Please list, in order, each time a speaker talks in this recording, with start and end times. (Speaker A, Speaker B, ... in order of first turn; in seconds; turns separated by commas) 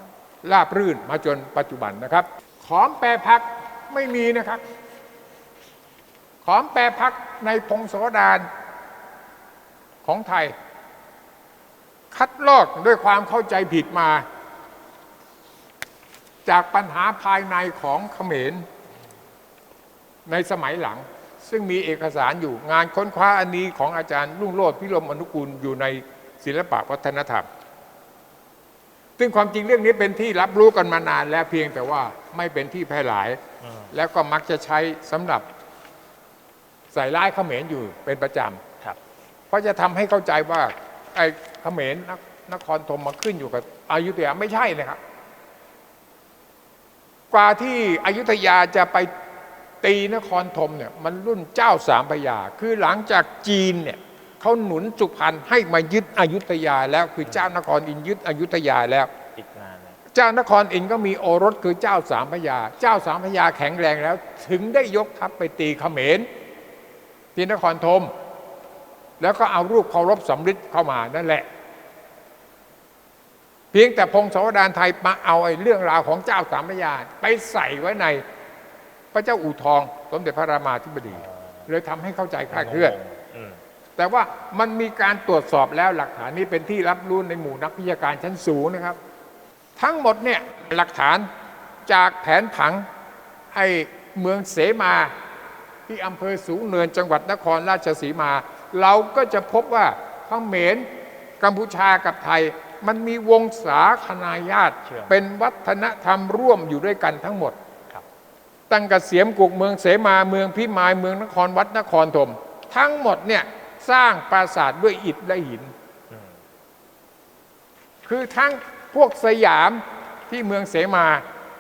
Speaker A: 0.4-4.6, Speaker A: 6.4-8.5, Speaker A: 10.0-10.5, Speaker A: 12.1-14.2, Speaker A: 16.5-18.6, Speaker A: 20.3-27.5, Speaker A: 29.2-33.4, Speaker B: 33.6-33.9, Speaker A: 33.9-35.4, Speaker A: 36.9-38.6, Speaker A: 39.5-45.0, Speaker A: 47.3-49.1, Speaker A: 49.8-59.1, Speaker B: 59.4-60.0, Speaker A: 60.1-66.3, Speaker A: 67.3-68.1, Speaker A: 69.2-71.5, Speaker A: 73.7-78.2, Speaker A: 79.1-82.9, Speaker B: 81.2-81.7, Speaker B: 82.5-83.6, Speaker A: 84.0-89.0, Speaker A: 89.8-91.3, Speaker A: 91.9-92.9, Speaker A: 93.5-95.1, Speaker A: 95.9-100.9, Speaker A: 101.4-107.5, Speaker B: 104.9-105.2, Speaker A: 108.7-115.7, Speaker A: 118.0-121.2